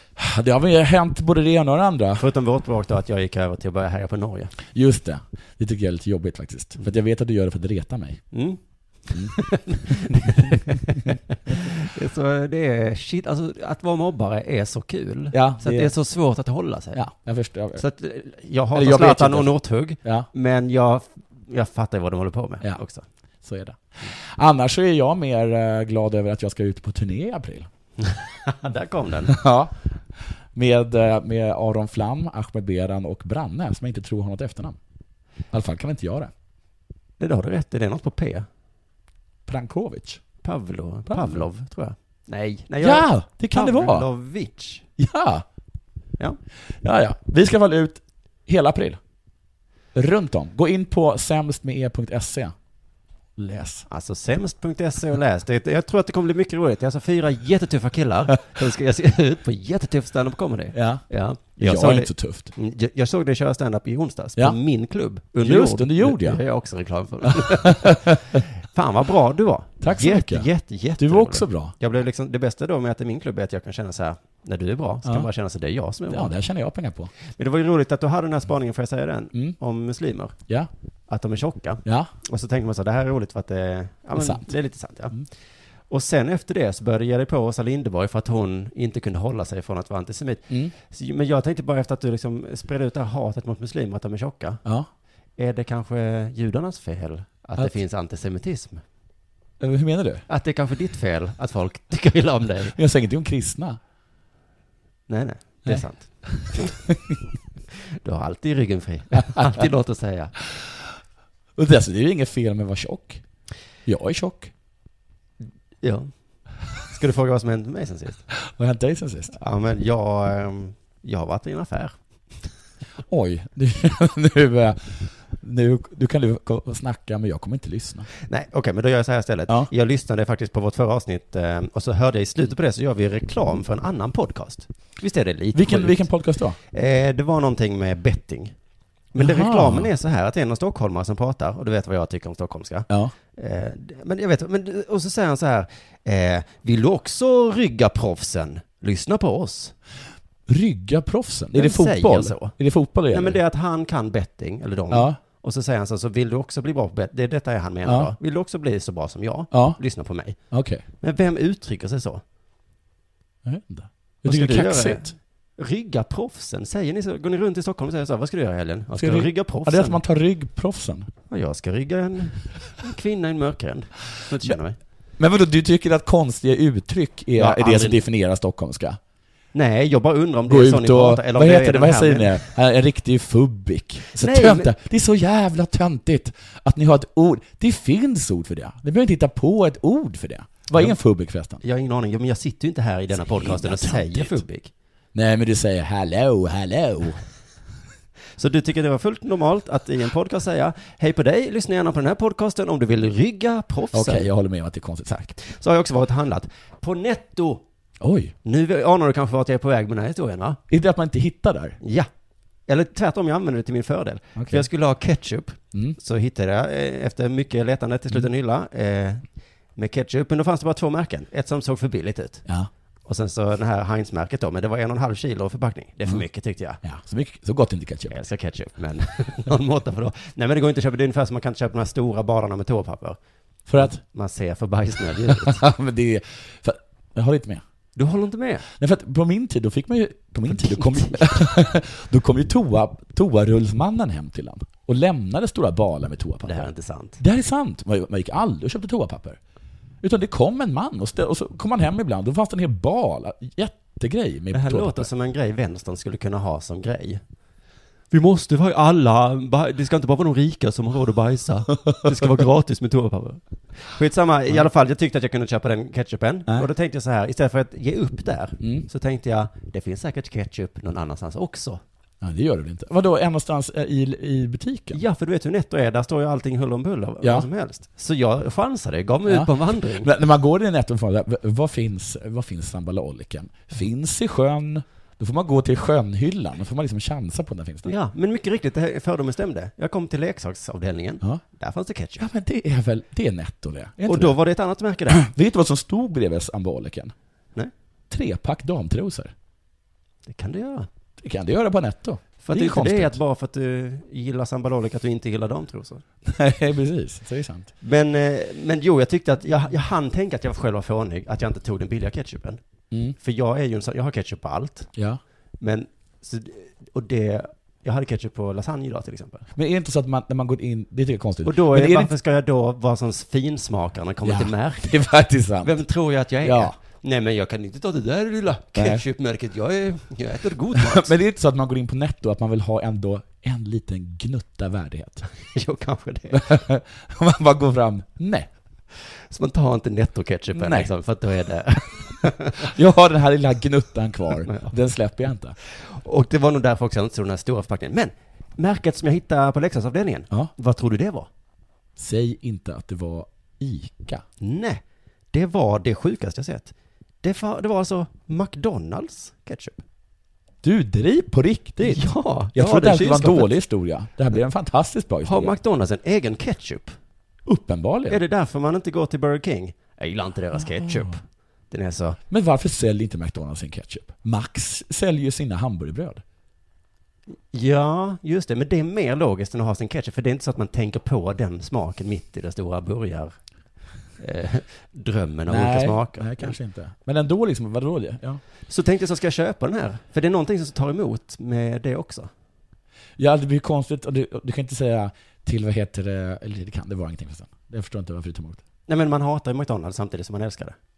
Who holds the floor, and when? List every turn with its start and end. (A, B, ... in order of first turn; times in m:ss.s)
0:00.2-0:02.2 A
0:02.2-0:04.5 B
0:04.7-0:08.3 A
0:08.3-0:17.1 B
0:09.9-0:10.6 A
0:15.3-0:15.9 A
0:16.9-0:17.8 A
0:17.8-0:23.0 B
0:18.7-0:20.3 A
0:23.4-0:27.7 A
0:28.0-0:29.4 B
0:29.3-0:29.7 A
0:30.5-0:34.8 A
0:35.5-0:36.3 A
0:37.2-0:38.5 B
0:39.5-0:40.2 A
0:40.4-0:44.8 B
0:41.1-0:41.5 A
0:42.8-0:44.1 A
0:45.0-0:45.4 A
0:46.8-0:49.0 A
0:50.0-0:52.5 A
0:53.4-0:53.9 A
0:53.9-1:08.0 B
1:00.7-1:01.1 A
1:01.6-1:02.5 A
1:05.4-1:06.4 A
1:07.4-1:08.2 A
1:08.7-1:16.3 B
1:09.8-1:11.7 A
1:16.1-1:17.1 A
1:17.3-1:20.4 B
1:21.1-1:25.2 B
1:21.8-1:22.1 A
1:24.2-1:24.5 A
1:25.9-1:34.6 B
1:35.4-1:38.8 B
1:39.6-1:40.3 A
1:40.3-1:42.8 B
1:42.8-1:43.8 A
1:45.1-1:46.1 B
1:46.4-1:47.2 A
1:48.0-1:50.4 B
1:49.2-1:49.5 A
1:51.6-1:53.2 A
1:53.9-1:54.5 A
1:55.8-1:56.1 B
1:56.9-1:58.2 B
1:58.4-1:59.4 A
1:59.4-2:02.0 B
2:03.1-2:08.1 A
2:08.2-2:16.1 B
2:15.5-2:16.6 A
2:16.7-2:18.5 B
2:19.1-2:29.7 B
2:19.2-2:19.9 A
2:22.9-2:23.1 A
2:30.5-2:33.4 A
2:31.6-2:32.6 B
2:33.1-2:40.4 B
2:34.9-2:35.2 A
2:37.8-2:38.1 A
2:39.5-2:39.8 A
2:40.5-2:40.8 A
2:41.0-2:42.2 B
2:43.4-2:45.1 A
2:44.2-2:50.0 B
2:49.0-2:51.1 A
2:51.3-2:54.8 B
2:55.2-2:59.0 A
2:57.4-2:58.0 B
2:59.5-3:02.5 B
3:00.5-3:11.6 A
3:04.2-3:04.7 B
3:11.6-3:14.7 B
3:13.1-3:14.4 A
3:15.1-3:17.2 A
3:18.4-3:24.3 B
3:23.9-3:25.2 A
3:25.1-3:27.6 B
3:28.0-3:28.3 A
3:28.4-3:30.6 B
3:30.7-3:31.8 A
3:31.8-3:32.1 B
3:32.7-3:39.2 B
3:34.4-3:34.7 A
3:39.8-3:42.4 B
3:43.1-3:46.8 B
3:46.8-3:48.2 A
3:48.1-3:53.2 B
3:53.7-3:54.0 A
3:53.7-3:55.6 B
3:55.3-3:57.6 A
3:58.0-3:58.6 B
3:58.8-4:09.4 A
4:00.5-4:01.5 B
4:06.4-4:07.2 B
4:10.0-4:15.1 A
4:14.5-4:17.2 B
4:18.1-4:31.8 B
4:28.6-4:28.9 A
4:32.2-4:35.0 A
4:34.9-4:40.1 B
4:37.2-4:37.5 A
4:39.3-4:47.9 A
4:47.8-4:52.2 B
4:52.2-4:54.4 A
4:54.1-4:55.2 B
4:55.1-4:57.1 A
4:58.1-4:59.3 A
5:00.3-5:00.9 B
5:01.2-5:03.2 A
5:02.4-5:06.0 B
5:06.3-5:07.7 A
5:07.8-5:12.6 B
5:13.2-5:14.9 B
5:15.0-5:15.2 A
5:15.6-5:19.4 B
5:19.6-5:22.1 A
5:21.4-5:25.0 B
5:24.2-5:25.8 A
5:25.6-5:31.1 B
5:26.4-5:26.8 A
5:28.8-5:29.0 A
5:30.8-5:35.2 A
5:35.5-5:36.5 B
5:36.3-5:38.5 A
5:39.3-5:42.7 B
5:40.6-5:40.9 A
5:42.6-5:45.6 A
5:44.4-5:44.7 B
5:45.6-5:51.3 B
5:52.0-5:54.2 A
5:54.4-5:59.8 B
6:00.6-6:05.5 A
6:01.8-6:03.5 B
6:05.2-6:07.0 B
6:07.5-6:08.2 A
6:08.1-6:12.2 B
6:10.6-6:11.1 A
6:12.3-6:16.2 A
6:17.5-6:23.4 B
6:24.2-6:26.6 B
6:25.5-6:28.4 A
6:28.7-6:32.3 B
6:33.2-6:38.6 A
6:38.9-6:40.8 B